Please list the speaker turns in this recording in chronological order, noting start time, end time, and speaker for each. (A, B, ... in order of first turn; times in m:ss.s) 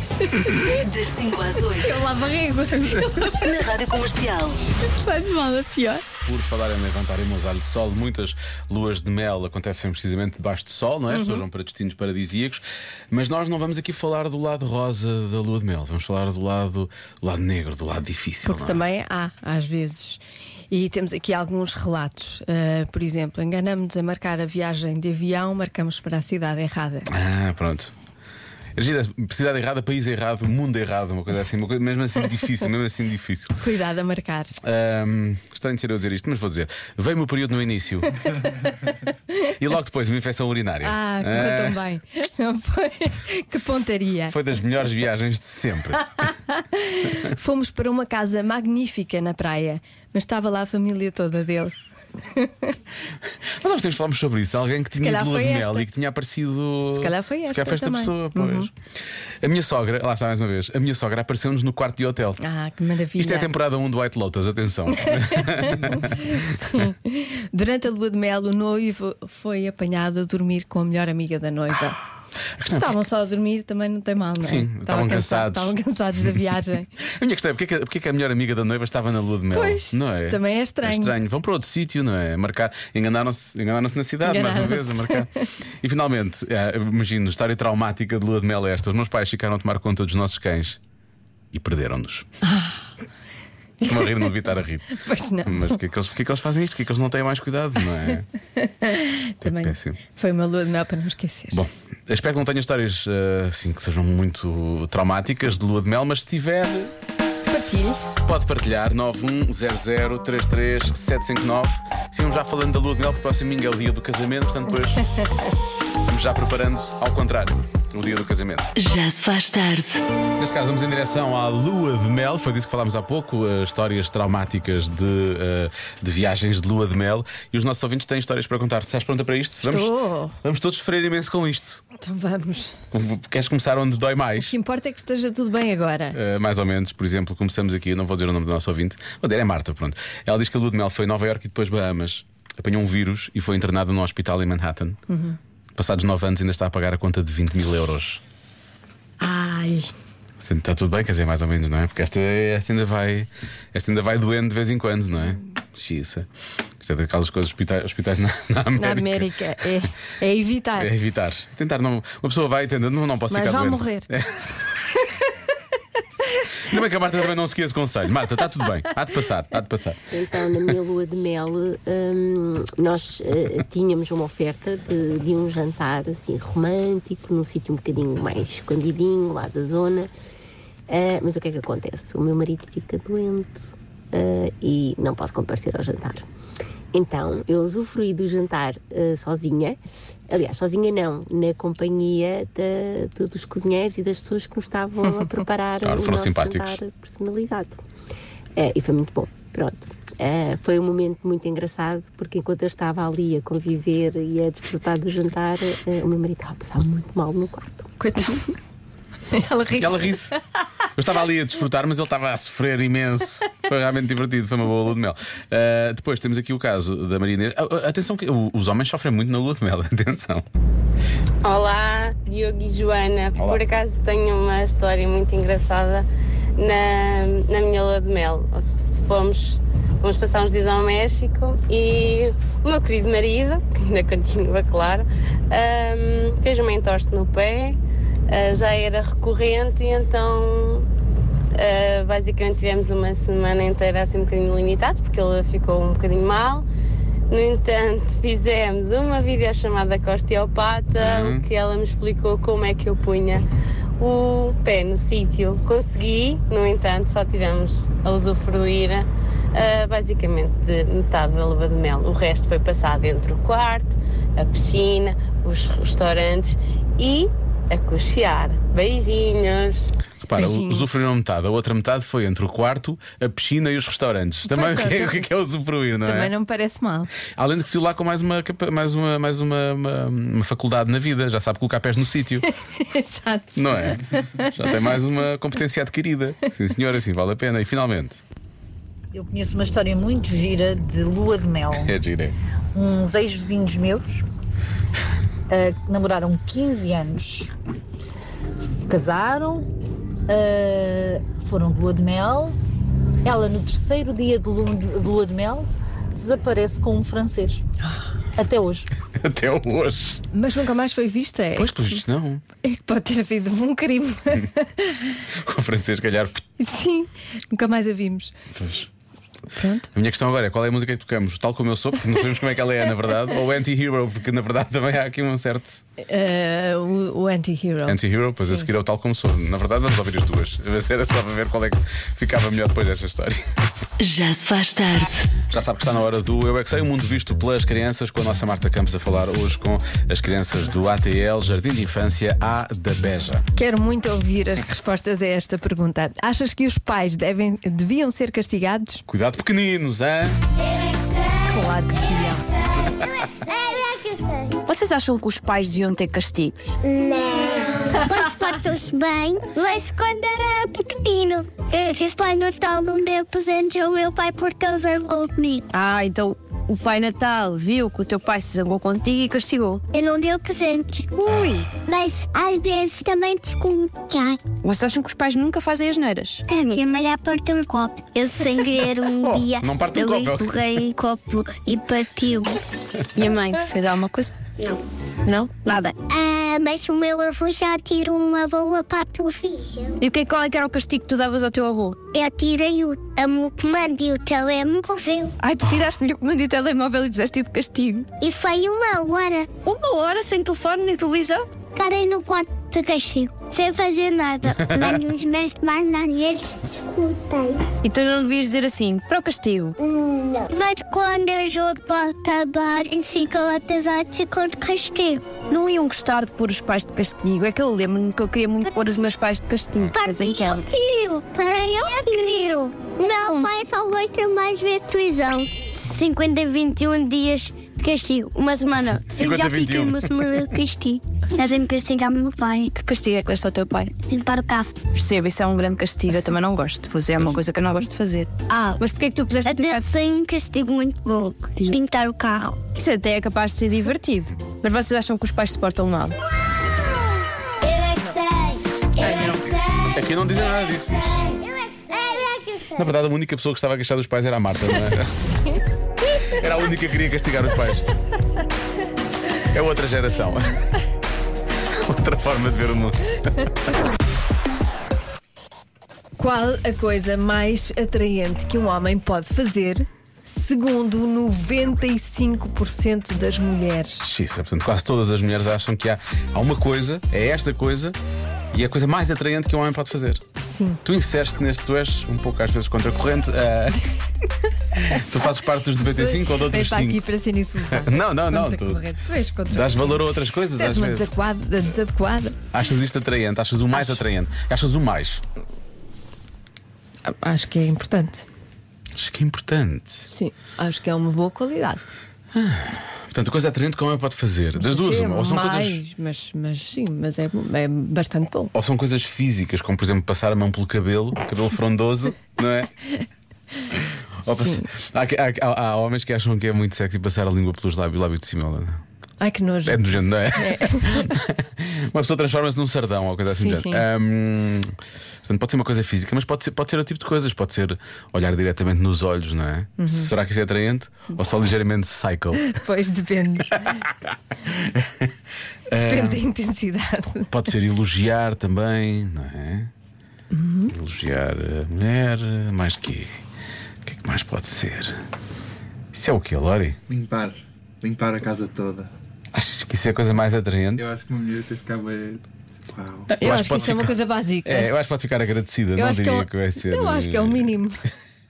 0:00.7-0:02.0 A
0:01.8-0:03.5 B
0:03.3-0:04.6 A
0:04.8-0:06.0 B
0:06.2-0:18.8 C
0:11.1-0:11.4 B
0:18.4-0:20.2 B
0:20.7-0:27.1 B
0:27.1-0:27.9 C
0:28.8-0:33.6 C
0:33.6-0:34.6 B
0:34.6-0:38.2 C
0:38.2-0:38.5 B
0:39.6-0:41.8 C
0:40.8-0:44.4 B
0:44.3-0:46.3 C
0:46.2-0:51.7 B
0:52.4-0:52.7 B
0:53.4-0:58.7 C
0:55.0-0:55.9 B
0:56.9-0:58.7 B
0:59.4-1:02.4 C
1:02.4-1:03.5 B
1:03.2-1:06.4 C
1:04.9-1:12.0 B
1:12.6-1:13.0 C
1:12.6-1:16.9 B
1:14.4-1:16.4 C
1:17.0-1:30.8 C
1:19.5-1:21.2 B
1:24.2-1:25.5 B
1:31.5-1:32.3 C
1:32.4-1:32.8 B
1:33.8-1:38.3 C
1:33.8-1:34.3 B
1:34.9-1:35.8 B
1:38.6-1:41.6 B
1:39.4-1:40.0 C
1:41.5-1:46.9 C
1:47.5-1:48.0 B
1:48.2-1:55.0 C
1:56.1-1:58.7 C
1:58.8-2:00.0 A
2:00.4-2:11.8 C
2:09.6-2:10.4 B
2:12.0-2:12.8 B
2:12.9-2:14.5 C
2:14.4-2:16.2 B
2:16.1-2:25.0 C
2:25.1-2:25.4 B
2:25.8-2:28.2 C
2:29.2-2:29.9 B
2:30.4-2:36.3 C
2:36.8-2:39.8 C
2:38.8-2:40.9 B
2:40.8-2:44.6 C
2:43.3-2:44.1 B
2:46.6-2:50.1 C
2:50.1-3:00.1 D
3:00.9-3:06.2 D
3:06.9-3:17.8 D
3:15.8-3:16.8 C
3:18.6-3:27.9 D
3:28.0-3:28.5 B
3:29.3-3:30.4 B
3:29.8-3:30.3 C
3:31.0-3:40.4 C
3:41.4-4:00.9 E
3:43.4-3:43.6 C
4:01.5-4:06.7 E
4:07.3-4:13.5 E
4:11.0-4:11.5 C
4:14.0-4:29.9 E
4:30.2-4:36.3 C
4:30.4-4:30.9 B
4:34.5-4:35.3 B
4:36.0-4:37.1 B
4:37.2-4:42.5 C
4:42.6-4:44.8 B
4:43.6-4:48.2 C
4:49.1-4:51.9 F
4:51.8-4:52.4 C
4:52.8-4:54.2 F
4:55.5-4:57.5 F
4:58.9-4:59.7 F
5:00.3-5:02.6 F
5:03.2-5:07.6 F
5:08.4-5:08.9 F
5:09.1-5:10.2 C
5:10.3-5:12.0 B
5:11.6-5:12.4 C
5:12.6-5:15.2 B
5:15.3-5:16.5 C
5:16.6-5:18.3 B
5:18.5-5:18.9 C
5:19.6-5:19.9 B
5:19.9-5:25.8 C
5:26.0-5:28.7 B
5:27.9-5:33.5 C
5:34.0-5:35.4 A
5:35.4-5:43.4 C
5:43.6-5:49.0 B
5:49.1-5:50.4 C
5:51.5-5:52.7 B
5:53.4-5:54.3 G
5:54.7-5:56.7 H
5:56.8-6:05.7 G
6:05.7-6:09.8 H
6:09.9-6:11.1 G
6:11.2-6:11.7 H
6:11.3-6:11.7 C
6:11.9-6:14.4 G
6:14.6-6:16.4 H
6:16.5-6:22.6 G
6:19.2-6:20.6 C
6:23.2-6:24.3 H
6:25.3-6:25.5 H
6:25.6-6:30.0 G
6:30.0-6:32.0 H
6:32.1-6:35.3 G
6:35.4-6:38.1 H
6:38.2-6:39.5 G
6:39.6-6:41.5 H
6:41.8-6:47.7 G
6:44.6-6:45.0 C
6:47.8-6:49.8 H
6:49.8-6:55.4 G
6:55.5-7:00.7 H
6:59.9-7:12.7 G
7:09.1-7:10.1 C
7:12.8-7:13.9 H
7:14.1-7:14.8 G
7:14.9-7:19.8 H
7:18.5-7:18.8 G
7:19.4-7:22.6 G
7:22.8-7:26.2 H
7:27.9-7:28.4 G
7:29.0-7:29.5 B
7:29.0-7:29.5 G
7:29.9-7:31.2 C
7:31.3-7:32.7 G
7:32.7-7:35.1 C
7:36.3-7:37.9 C
7:39.5-7:40.6 C
7:41.7-7:43.5 C
7:46.2-7:54.1 B
7:54.0-7:58.0 C
7:58.5-8:00.2 C
8:00.4-8:00.8 B
8:00.8-8:03.8 C
8:04.8-8:07.0 C
8:05.8-8:12.4 B
8:07.7-8:08.8 C
8:09.5-8:11.0 C
8:12.5-8:15.2 C
8:13.7-8:14.0 B
8:17.0-8:18.3 B
8:19.0-8:20.1 C
8:20.1-8:21.8 B
8:22.3-8:25.8 C
8:24.6-8:28.5 B
8:28.5-8:32.7 C
8:33.7-8:38.8 C
8:34.3-8:34.7 B
8:39.2-8:41.2 B
8:39.6-8:52.5 C
8:43.3-8:43.8 B
8:49.8-8:50.1 B
8:52.4-8:53.8 B
8:53.6-8:55.1 C
8:55.7-8:56.2 C
8:55.8-8:57.3 B
8:57.3-8:59.7 C
9:00.3-9:00.7 B
9:00.7-9:03.2 C
9:03.8-9:05.0 C
9:05.9-9:06.8 C
9:06.9-9:08.9 I
9:09.3-9:10.9 C
9:10.8-9:14.0 I
9:13.1-9:17.6 C
9:13.2-9:14.7 B
9:15.8-9:17.8 B